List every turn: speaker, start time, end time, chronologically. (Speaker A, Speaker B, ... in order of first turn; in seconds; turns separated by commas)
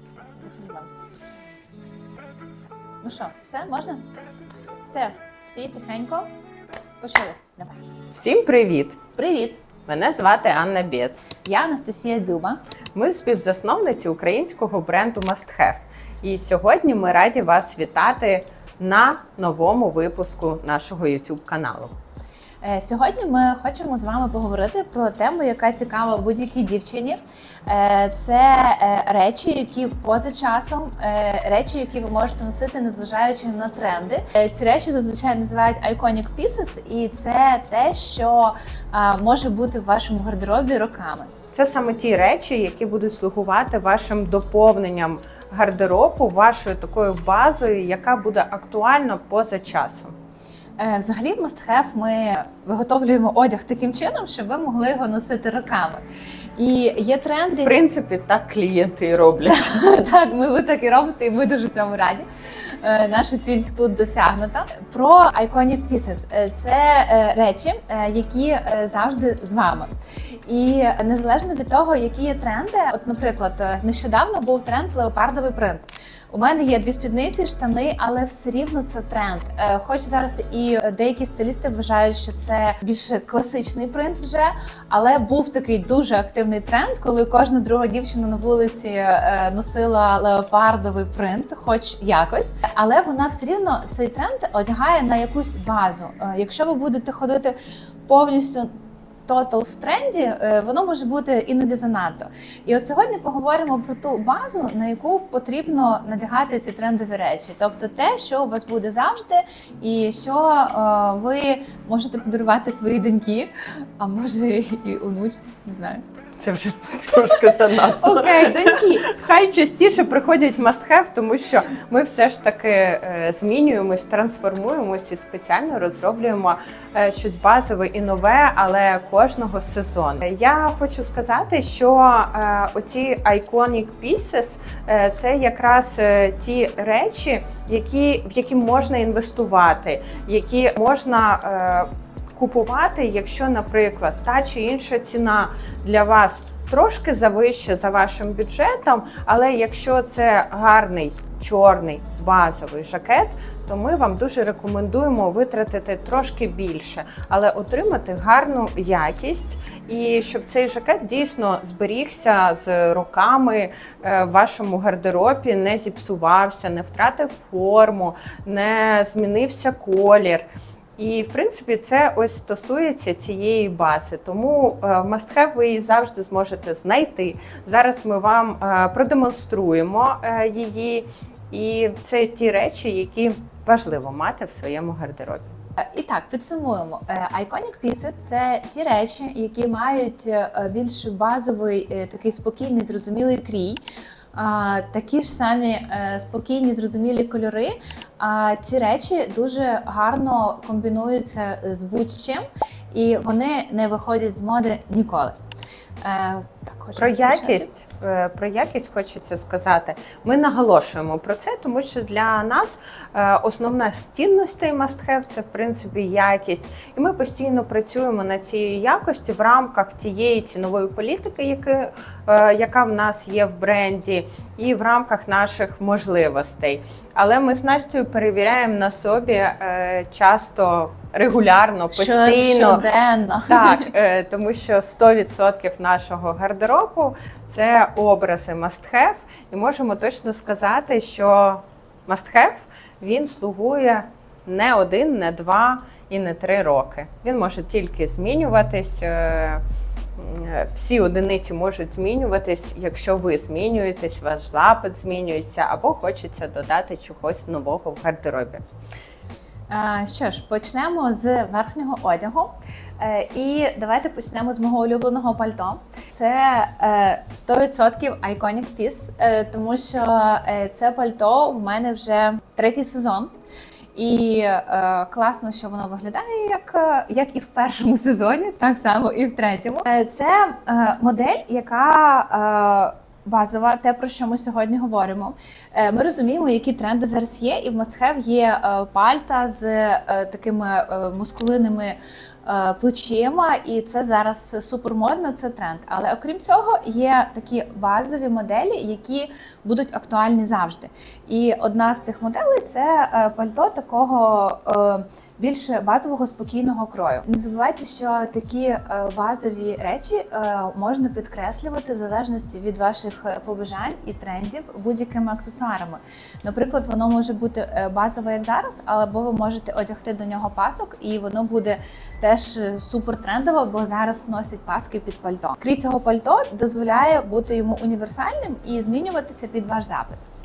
Speaker A: 0.4-0.9, Speaker A: 3.0-4.0, Speaker A: 4.8-6.3, Speaker A: 7.0-7.8, Speaker B: 8.1-9.0, Speaker A: 9.2-9.6, Speaker B: 9.9-11.3, Speaker A: 11.4-12.6, Speaker B: 12.9-21.9, Speaker A: 22.6-41.3, Speaker B: 41.5-50.1, Speaker A: 50.8-56.0, Speaker A: 56.5-57.7, Speaker B: 57.6-59.8, Speaker A: 59.5-69.9, Speaker A: 70.5-97.5, Speaker A: 98.1-98.7, Speaker A: 99.3-116.0, Speaker B: 116.4-170.4, Speaker A: 117.8-119.1, Speaker B: 171.0-185.5, Speaker A: 185.8-193.8, Speaker A: 194.3-205.3, Speaker A: 206.0-207.7, Speaker B: 207.0-232.8, Speaker A: 231.9-233.9, Speaker B: 233.5-249.6, Speaker B: 250.2-258.6, Speaker A: 259.7-273.3, Speaker A: 273.9-330.2